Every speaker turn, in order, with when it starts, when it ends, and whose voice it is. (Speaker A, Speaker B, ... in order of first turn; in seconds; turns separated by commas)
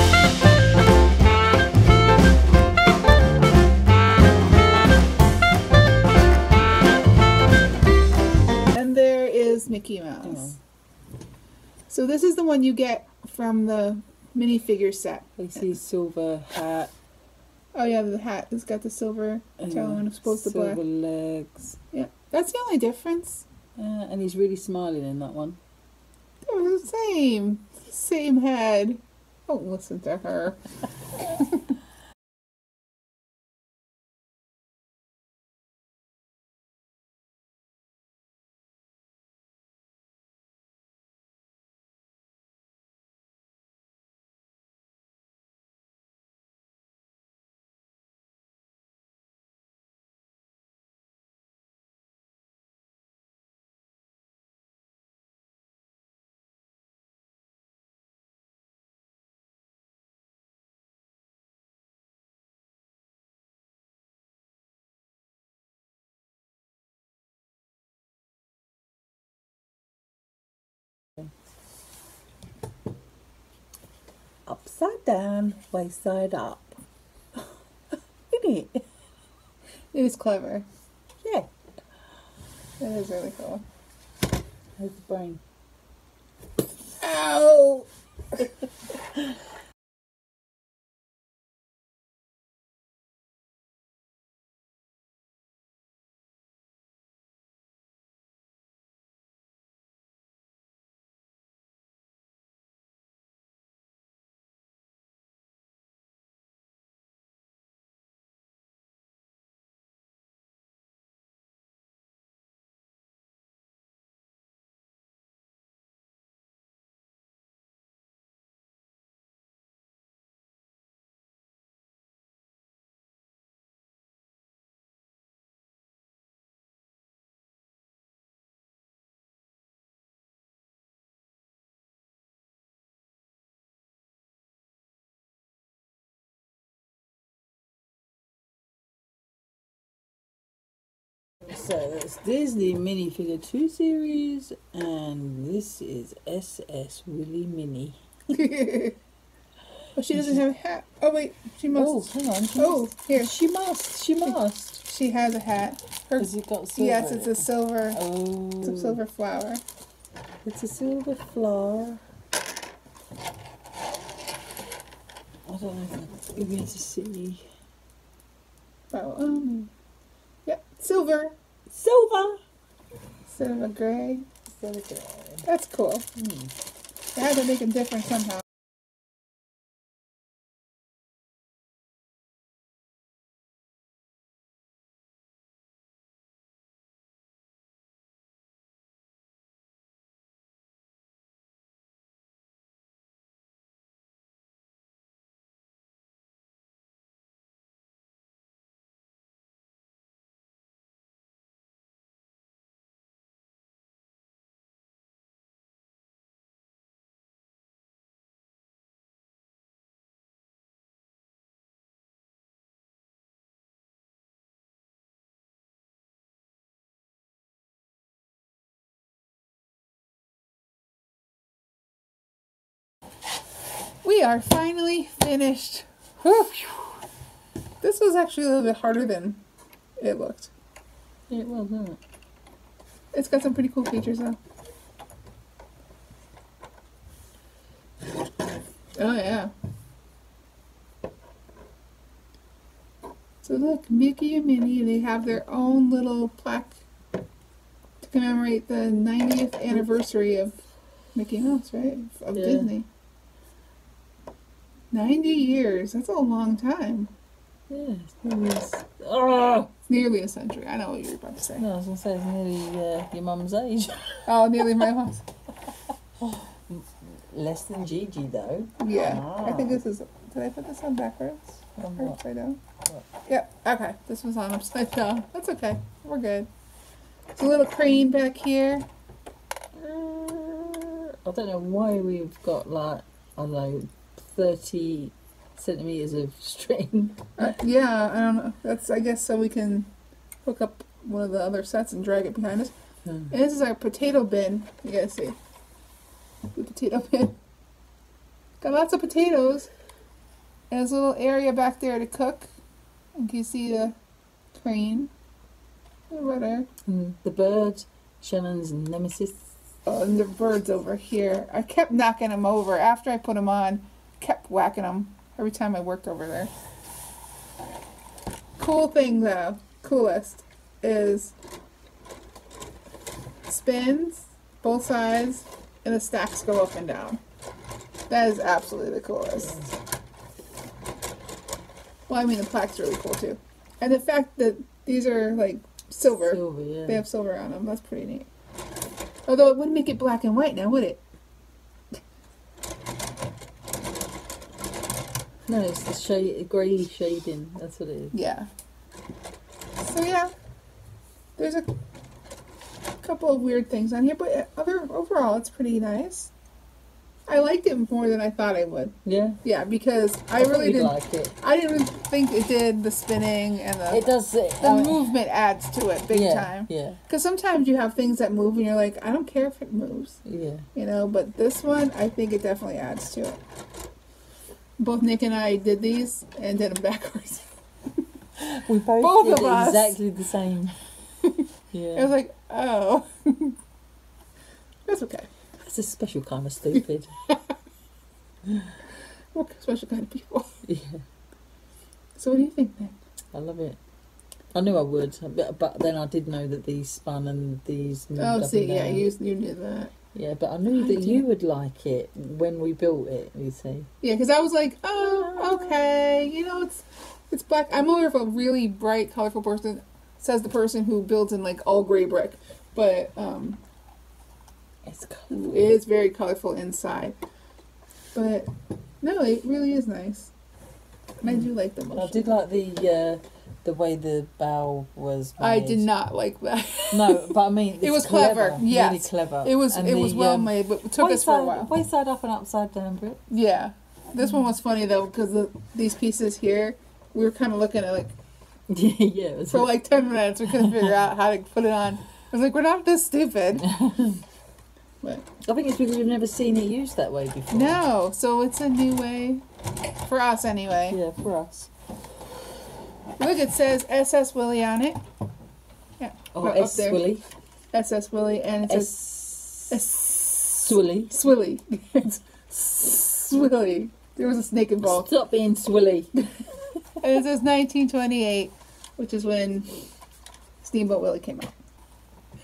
Speaker A: 8.7-10.6, Speaker B: 10.2-10.6, Speaker A: 11.9-15.3, Speaker B: 15.4-16.9, Speaker A: 17.7-20.8, Speaker B: 19.6-21.8, Speaker A: 21.9-23.4, Speaker B: 23.8-25.6, Speaker A: 26.4-30.6, Speaker A: 31.2-31.6, Speaker B: 74.5-76.8, Speaker B: 78.3-78.8, Speaker A: 79.9-80.7, Speaker A: 82.8-83.6, Speaker B: 84.8-85.4, Speaker A: 87.0-87.9, Speaker B: 141.4-148.0, Speaker A: 148.3-149.0, Speaker A: 149.9-153.3, Speaker B: 150.1-150.4, Speaker B: 151.7-154.8, Speaker A: 154.8-158.0, Speaker B: 156.2-159.0, Speaker A: 158.6-159.6, Speaker B: 160.4-162.0, Speaker B: 165.5-167.4, Speaker A: 168.9-169.7, Speaker A: 170.5-171.4, Speaker B: 171.7-172.4, Speaker A: 173.3-174.3, Speaker B: 174.5-175.5, Speaker A: 175.4-176.1, Speaker B: 176.2-176.5, Speaker A: 177.2-178.4, Speaker A: 224.0-227.0, Speaker A: 227.8-229.4, Speaker A: 230.0-230.5, Speaker B: 231.3-232.0, Speaker A: 233.1-234.4, Speaker A: 239.0-239.5, Speaker A: 243.4-246.8, Speaker A: 248.0-250.6, Speaker A: 251.2-252.9, Speaker B: 252.3-252.7, Speaker A: 254.9-257.1, Speaker B: 257.7-259.7, Speaker A: 259.9-261.6, Speaker B: 261.6-264.3, Speaker A: 264.2-265.2, Speaker B: 266.2-269.8, Speaker A: 268.8-272.6, Speaker B: 271.8-272.2, Speaker A: 273.3-276.5, Speaker A: 277.4-278.9, Speaker B: 279.8-287.5, Speaker A: 287.4-289.9, Speaker A: 290.4-292.7, Speaker A: 293.3-295.4, Speaker A: 296.6-297.4, Speaker A: 298.6-299.7, Speaker A: 300.7-302.5, Speaker A: 303.2-303.9, Speaker A: 304.5-305.1, Speaker A: 306.1-306.7, Speaker B: 306.9-309.5, Speaker A: 309.9-316.5, Speaker A: 318.6-321.3, Speaker A: 323.5-327.2, Speaker A: 328.1-329.7, Speaker B: 329.4-329.7, Speaker A: 332.1-338.3, Speaker B: 336.1-337.1, Speaker A: 339.3-341.0, Speaker B: 345.5-348.1, Speaker A: 348.1-348.5, Speaker A: 349.8-350.3, Speaker A: 351.4-351.7, Speaker A: 353.0-356.3, Speaker A: 357.3-364.1, Speaker B: 359.1-359.4, Speaker B: 360.4-361.4, Speaker B: 363.9-365.1, Speaker A: 364.6-370.2, Speaker B: 366.1-367.0, Speaker B: 370.2-370.7, Speaker A: 370.7-373.4, Speaker A: 374.8-377.5, Speaker B: 378.4-380.8, Speaker A: 379.0-380.0, Speaker B: 381.7-382.1, Speaker A: 381.9-383.6, Speaker A: 384.9-385.3, Speaker B: 385.6-387.1, Speaker B: 388.5-388.7, Speaker A: 389.3-390.5, Speaker B: 390.6-391.0, Speaker A: 392.2-393.0, Speaker B: 393.3-393.8, Speaker B: 394.5-399.1, Speaker A: 398.2-399.9, Speaker B: 400.1-403.9, Speaker A: 400.7-401.2, Speaker A: 404.0-413.6, Speaker B: 405.0-405.8, Speaker B: 414.9-415.7, Speaker A: 415.3-417.2, Speaker A: 418.1-418.5, Speaker A: 419.0-420.3, Speaker A: 421.2-422.3, Speaker B: 421.2-425.9, Speaker A: 425.4-431.7, Speaker B: 426.9-433.2, Speaker A: 433.3-438.1, Speaker B: 438.7-439.7, Speaker A: 439.5-443.7, Speaker B: 440.6-440.9, Speaker B: 443.6-444.2, Speaker B: 445.4-447.8, Speaker A: 447.5-449.4, Speaker A: 450.1-451.0, Speaker B: 450.9-451.7, Speaker A: 453.2-455.0, Speaker A: 456.0-457.0, Speaker B: 456.3-457.2, Speaker A: 457.7-459.0, Speaker B: 458.7-461.2, Speaker A: 459.7-465.1, Speaker B: 464.8-466.1, Speaker A: 467.0-469.7, Speaker A: 470.6-471.6